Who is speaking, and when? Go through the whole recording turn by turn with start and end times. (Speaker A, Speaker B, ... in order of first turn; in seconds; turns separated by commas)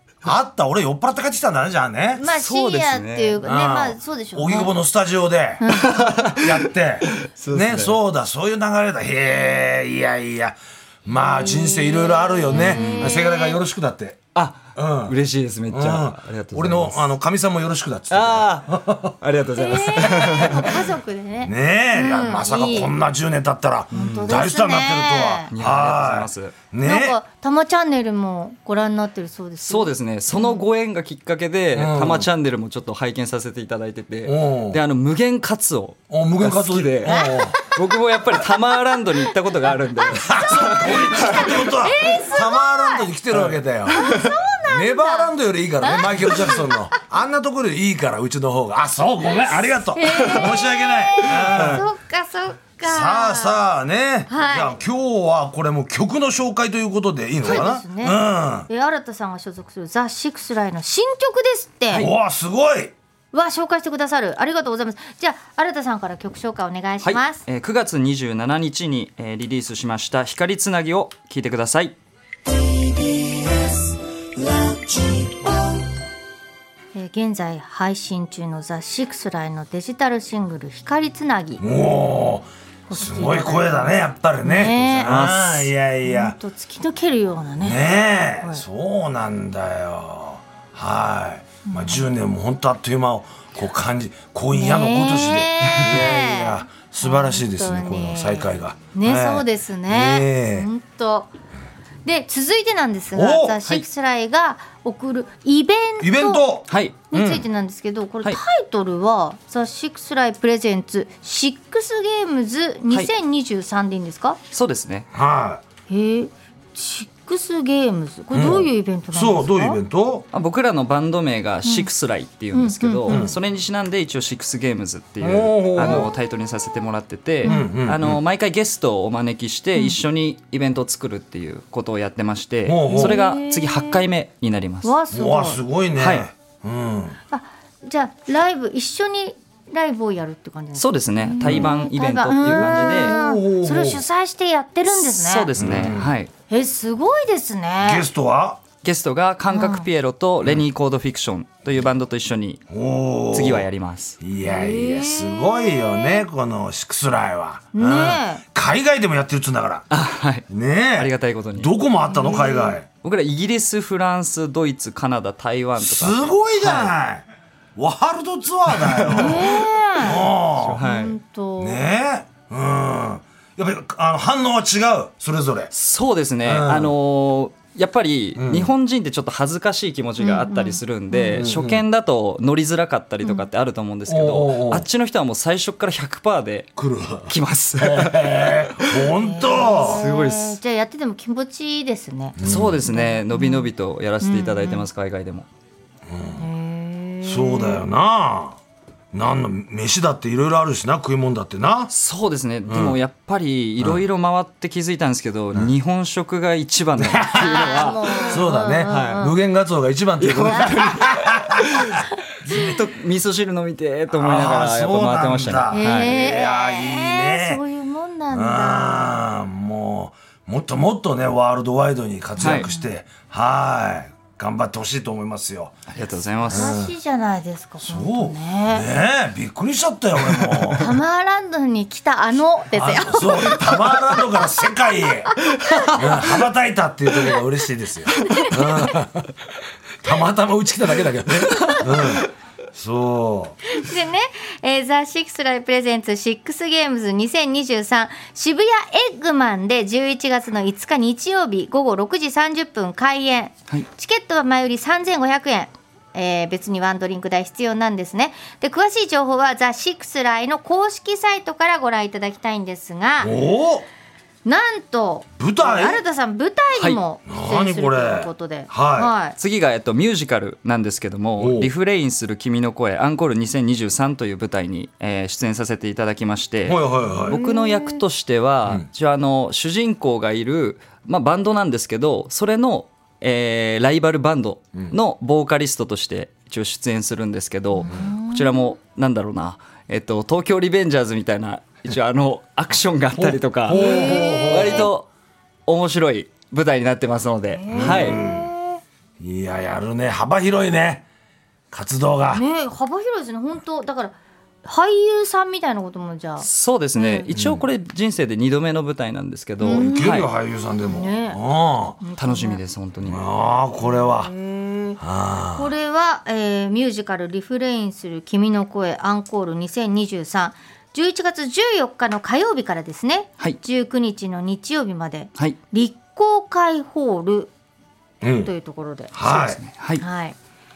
Speaker A: 0.2-2.2, Speaker B: 2.1-4.7, Speaker C: 2.2-3.4, Speaker A: 3.4-5.6, Speaker B: 5.6-5.9, Speaker C: 5.8-8.0, Speaker A: 6.3-14.2, Speaker B: 11.3-13.6, Speaker C: 12.5-13.2, Speaker C: 14.3-17.1, Speaker A: 14.7-15.1, Speaker A: 15.7-19.1, Speaker C: 18.1-20.8, Speaker B: 19.6-22.9, Speaker A: 20.2-20.6, Speaker A: 21.4-27.2, Speaker B: 23.9-25.5, Speaker C: 23.9-24.3, Speaker C: 25.5-26.5, Speaker B: 26.8-30.6, Speaker C: 29.6-41.7, Speaker A: 31.7-32.3, Speaker A: 34.2-34.8, Speaker A: 36.1-37.6, Speaker B: 37.0-39.0, Speaker B: 40.0-43.1, Speaker A: 40.1-44.2, Speaker C: 43.3-44.2, Speaker B: 43.9-46.7, Speaker A: 44.7-51.8, Speaker B: 49.9-53.6, Speaker C: 51.5-51.9, Speaker A: 52.8-58.7, Speaker B: 54.3-54.7, Speaker B: 57.4-62.1, Speaker A: 61.9-62.9, Speaker B: 63.3-67.4, Speaker C: 67.0-72.0, Speaker B: 76.9-81.6, Speaker A: 81.6-86.3, Speaker B: 82.9-85.5, Speaker C: 85.0-85.7, Speaker B: 86.0-87.8, Speaker A: 87.6-100.7, Speaker B: 91.7-92.0, Speaker B: 94.5-101.3, Speaker B: 102.0-106.5, Speaker A: 103.1-103.6, Speaker A: 106.0-107.4, Speaker C: 106.7-107.0, Speaker B: 107.1-114.4, Speaker C: 114.5-115.1, Speaker A: 115.1-115.6, Speaker B: 115.9-119.8, Speaker A: 118.3-120.3, Speaker C: 120.3-134.9, Speaker B: 122.5-123.3, Speaker A: 123.1-123.3, Speaker A: 125.2-126.1, Speaker B: 125.8-126.1, Speaker B: 127.4-127.7, Speaker A: 127.4-128.2, Speaker A: 132.7-133.2, Speaker B: 132.9-134.0, Speaker B: 134.8-135.6, Speaker A: 135.1-137.2, Speaker C: 136.0-136.3, Speaker B: 137.3-145.5, Speaker C: 140.8-143.2, Speaker A: 141.4-141.7, Speaker A: 142.4-144.0, Speaker C: 144.9-146.3, Speaker A: 145.6-146.1, Speaker B: 146.5-148.1, Speaker A: 147.8-148.6, Speaker C: 148.8-152.7, Speaker B: 149.5-149.9, Speaker A: 152.7-153.7, Speaker C: 153.3-154.2, Speaker A: 154.2-159.9, Speaker B: 154.4-156.2, Speaker B: 157.7-158.4, Speaker C: 159.9-161.7, Speaker A: 160.5-162.9, Speaker B: 162.1-162.8, Speaker C: 163.0-166.9, Speaker A: 165.8-167.2, Speaker A: 167.8-170.8, Speaker C: 168.7-169.6, Speaker B: 169.1-170.2, Speaker C: 170.2-171.2, Speaker B: 170.8-171.8, Speaker A: 171.6-175.7, Speaker C: 175.7-190.6, Speaker A: 176.4-176.9, Speaker A: 178.3-178.7, Speaker B: 180.2-181.4, Speaker A: 181.3-181.8, Speaker A: 184.1-184.8, Speaker A: 186.8-190.0, Speaker B: 189.2-193.7, Speaker A: 192.4-192.8, Speaker C: 192.4-195.5, Speaker B: 194.2-194.8, Speaker A: 196.1-196.4, Speaker B: 196.4-197.8, Speaker A: 197.2-198.6, Speaker A: 199.1-201.9, Speaker C: 201.9-209.3, Speaker A: 202.7-203.0, Speaker A: 207.0-212.7, Speaker B: 207.4-209.3, Speaker C: 210.2-216.1, Speaker B: 210.5-210.8, Speaker A: 214.1-217.6, Speaker B: 215.7-219.3, Speaker A: 218.3-225.8, Speaker C: 222.4-222.7, Speaker B: 222.4-222.9, Speaker C: 225.9-226.8, Speaker B: 226.5-228.9, Speaker A: 226.5-226.9, Speaker A: 227.8-231.0, Speaker B: 230.7-234.1, Speaker A: 232.7-239.3, Speaker B: 235.6-236.0, Speaker B: 238.2-238.6, Speaker A: 240.0-243.6, Speaker B: 243.7-263.3, Speaker A: 263.2-263.9, Speaker B: 264.4-269.4, Speaker A: 265.4-266.0, Speaker A: 267.3-269.1, Speaker C: 269.4-295.1, Speaker A: 271.4-271.7, Speaker A: 276.6-277.4, Speaker B: 277.3-278.0, Speaker B: 287.7-288.8, Speaker A: 293.2-294.9, Speaker B: 293.7-294.9, Speaker C: 295.6-298.2, Speaker B: 297.5-298.8, Speaker A: 297.7-298.5, Speaker A: 299.2-301.1, Speaker A: 301.7-302.4, Speaker B: 302.3-307.3, Speaker C: 306.4-310.3, Speaker A: 307.3-307.6, Speaker B: 309.6-310.1, Speaker A: 309.7-312.0, Speaker B: 310.8-311.4, Speaker B: 312.0-312.6, Speaker C: 312.2-313.2, Speaker A: 313.0-314.3, Speaker B: 313.8-315.0, Speaker A: 315.0-315.7, Speaker B: 315.5-327.5, Speaker A: 328.2-328.5, Speaker B: 328.4-330.4, Speaker A: 329.1-329.6, Speaker C: 329.2-330.0